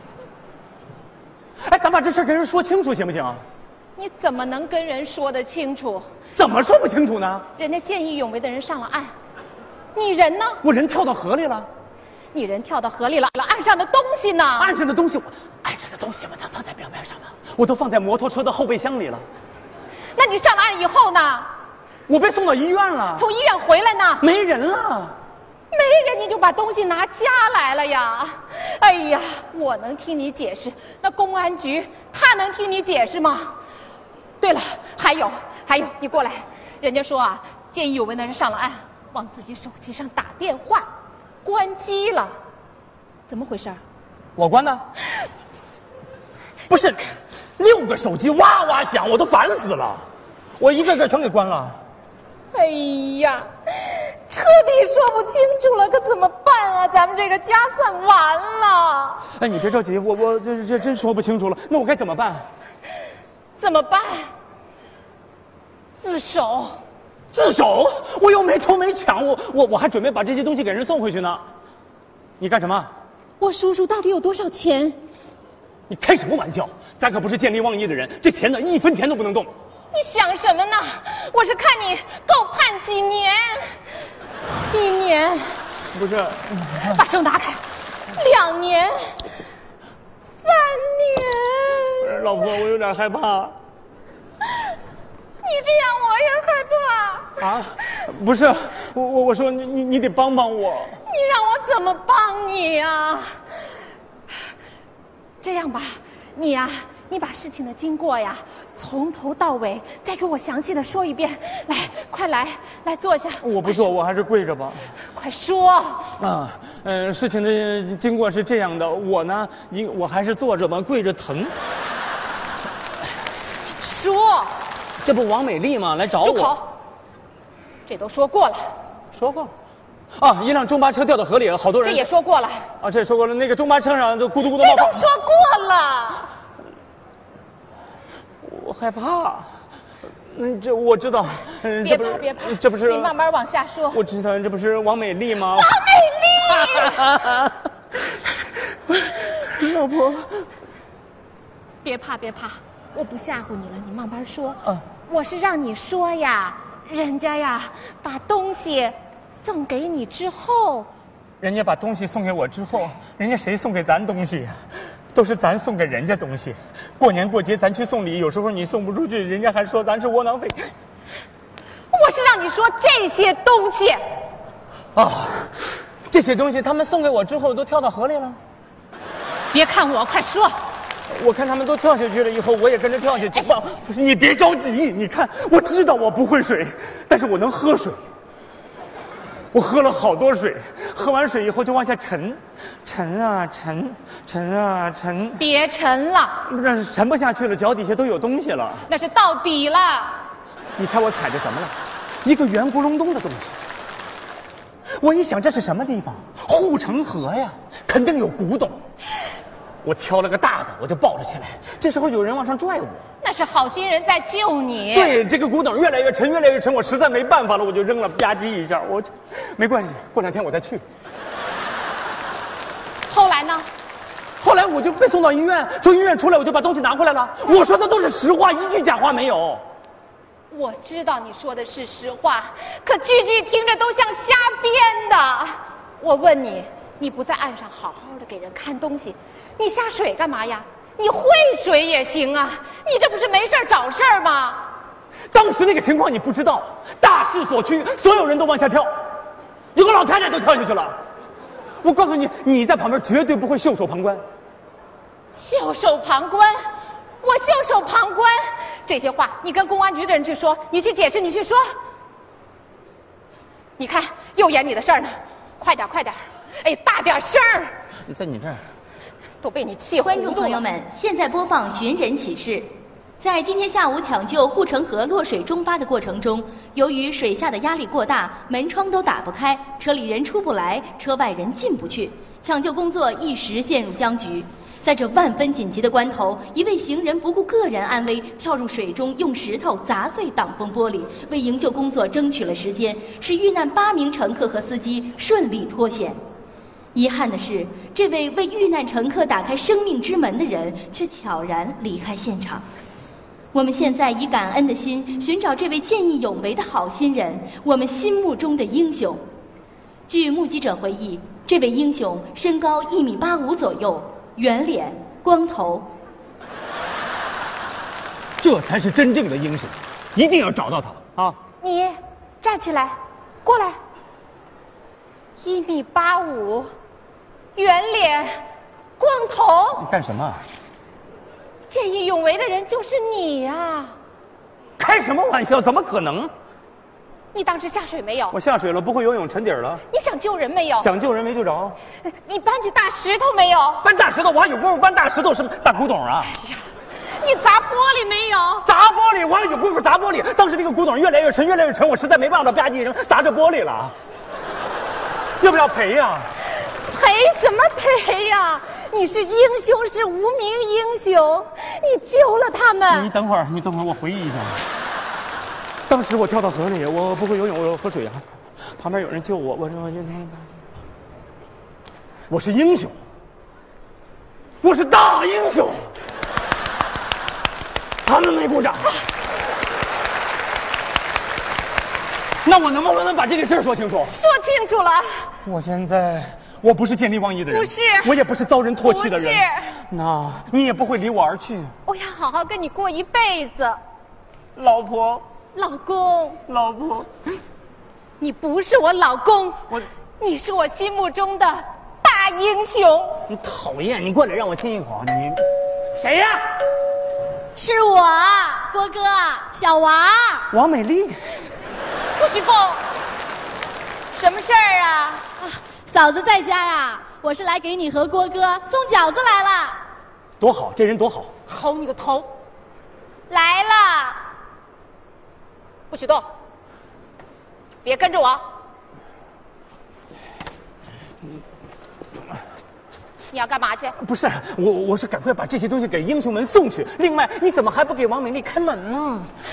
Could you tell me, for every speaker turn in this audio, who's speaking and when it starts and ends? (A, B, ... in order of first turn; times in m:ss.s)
0:01.6-0:03.4 A
0:04.0-0:06.1 B
0:06.4-0:07.5 A
0:07.6-0:09.1 B
0:10.0-0:10.6 B
0:10.6-0:11.7 A
0:12.3-0:14.7 B
0:14.6-0:19.2 A
0:20.2-0:21.5 B
0:22.1-0:23.3 A
0:23.2-0:24.2 B
0:24.2-0:25.2 A
0:25.7-0:33.6 B
0:34.4-0:40.9 B
0:41.4-0:42.3 B
0:43.3-0:43.8 B
0:44.4-0:44.8 A
0:46.7-0:47.0 A
0:47.6-0:50.0 A
0:50.6-0:51.8 A
0:52.5-0:59.2 B
0:59.4-1:02.4 A
1:03.6-1:04.3 B
1:06.0-1:06.8 B
1:07.3-1:11.4 A
1:12.4-1:12.9 A
1:13.4-1:15.0 B
1:15.9-1:19.5 A
1:19.9-1:23.8 B
1:24.7-1:25.6 B
1:25.9-1:27.0 A
1:26.8-1:29.2 B
1:30.4-1:32.1 B
1:32.0-1:33.6 A
1:35.4-1:37.4 B
1:37.4-1:41.0 A
1:41.1-1:43.4 B
1:45.4-1:53.5 B
1:53.4-1:54.9 A
1:55.1-1:56.1 B
1:56.2-2:01.5 A
2:03.8-2:04.6 B
2:05.0-2:06.6 A
2:06.2-2:06.7 B
2:07.9-2:08.7 B
2:09.1-2:09.5 A
2:10.2-2:12.1 A
2:11.8-2:12.7 B
2:12.8-2:15.1 A
2:14.5-2:16.3 B
2:18.4-2:19.5 A
2:20.3-2:23.1 A
2:21.8-2:24.0 B
2:23.9-2:25.8 A
2:25.5-2:27.0 B
2:26.5-2:27.6 A
2:29.3-2:30.5 A
2:31.8-2:40.9 B
2:41.4-2:44.6 A
2:45.1-2:50.7 A
2:51.9-2:54.0 B
2:55.0-2:55.5 A
2:56.1-2:58.4 A
2:59.5-3:00.6 B
3:01.1-3:08.0 A
3:09.5-3:15.4 A
3:15.4-3:16.4 B
3:16.5-3:18.9 A
3:18.9-3:20.2 B
3:20.8-3:21.7 A
3:22.2-3:23.6 A
3:25.0-3:28.8 A
3:29.8-3:33.0 A
3:33.2-3:35.2 B
3:34.9-3:40.8 A
3:43.1-3:43.7 B
3:44.4-3:49.6 A
3:50.5-4:04.6 B
4:05.3-4:08.9 A
4:09.8-4:11.0 A
4:11.8-4:14.2 A
4:15.3-4:16.6 B
4:17.2-4:21.6 B
4:23.8-4:27.7 B
4:28.1-4:28.6 A
4:29.4-4:30.6 B
4:30.0-4:56.2 C
4:56.9-5:02.6 C
5:03.5-5:09.2 C
5:10.1-5:15.9 C
5:18.4-5:21.4 A
5:21.6-5:23.8 B
5:25.4-5:26.7 B
5:27.6-5:28.4 B
5:29.0-5:29.9 B
5:29.8-5:30.4 A
5:31.7-5:34.0 B
5:34.8-5:36.3 A
5:37.3-5:38.4 B
5:38.3-5:39.8 A
5:39.9-5:40.9 B
5:40.8-5:41.8 A
5:42.0-5:43.9 B
5:43.8-5:46.4 A
5:46.3-5:48.7 B
5:48.6-5:53.9 A
5:55.4-5:56.3 A
5:56.6-6:03.1 B
6:02.9-6:04.6 A
6:05.9-6:08.2 A
6:08.8-6:10.5 A
6:12.3-6:13.0 A
6:14.6-6:15.9 A
6:18.0-6:19.0 A
6:22.4-6:24.2 A
6:24.1-6:25.3 B
6:25.4-6:31.7 A
6:27.5-6:28.2 B
6:28.8-6:29.8 B
6:31.9-6:33.8 B
6:34.6-6:35.2 A
6:35.5-6:36.4 B
6:36.5-6:37.1 A
6:38.2-6:43.2 B
6:43.3-6:45.4 A
6:46.0-6:46.3 A
6:47.6-6:50.5 B
6:50.5-6:51.3 A
6:52.2-6:52.8 B
6:54.2-6:59.8 B
7:00.4-7:01.3 A
7:01.5-7:02.3 B
7:03.3-7:04.2 B
7:05.9-7:06.2 B
7:07.8-7:08.4 B
7:13.3-7:14.0 B
7:14.0-7:19.3 A